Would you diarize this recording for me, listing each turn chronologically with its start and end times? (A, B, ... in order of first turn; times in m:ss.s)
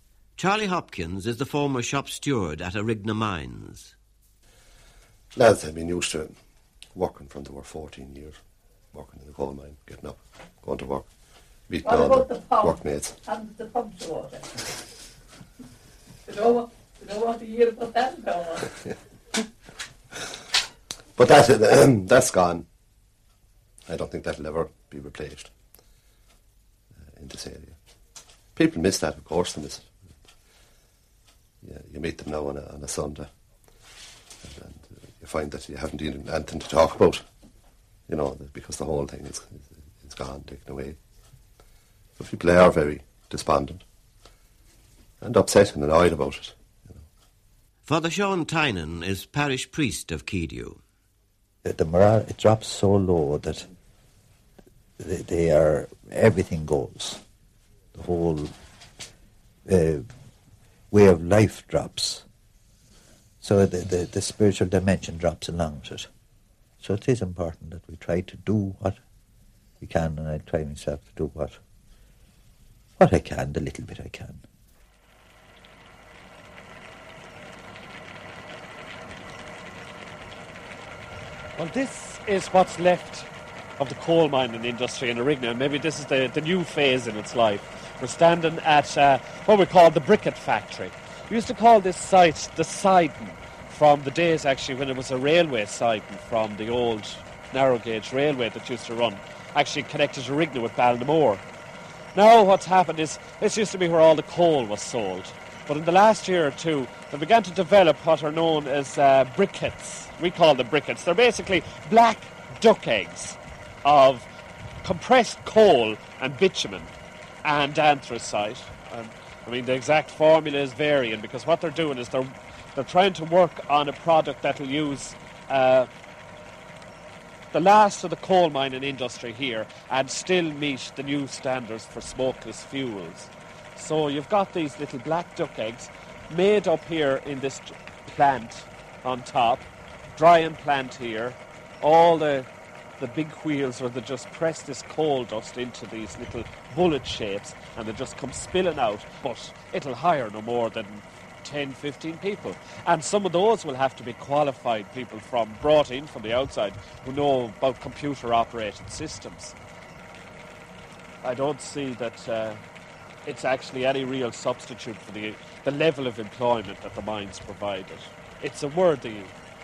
0:00.4-0:03.9 A
0:05.3-0:06.4 B
0:06.9-0:08.4 B
0:08.9-0:11.1 B
0:11.7-0:13.2 B
0:12.0-0:12.7 C
0:13.4-0:14.4 C
0:16.4-0:18.6 C
0:21.2-0:22.7 B
0:23.9-0:25.5 B
0:27.0-0:27.8 B
0:28.6-0:30.0 B
0:31.6-0:33.3 B
0:34.4-0:37.2 B
0:38.1-0:41.0 B
0:42.2-0:43.8 B
0:45.2-0:47.0 B
0:47.8-0:50.8 A
0:51.6-0:53.7 D
0:55.0-0:57.2 D
0:57.9-0:58.5 D
0:59.7-1:00.1 D
1:00.9-1:02.2 D
1:03.4-1:06.1 D
1:06.8-1:09.0 D
1:09.8-1:11.6 D
1:13.0-1:14.4 D
1:21.6-1:41.4 E
1:42.1-1:54.3 E
1:54.8-1:56.9 E
1:57.4-2:05.9 E
2:07.5-2:19.6 E
2:20.2-2:22.5 E
2:23.0-2:39.6 E
2:41.2-2:42.6 E
2:43.2-2:49.3 E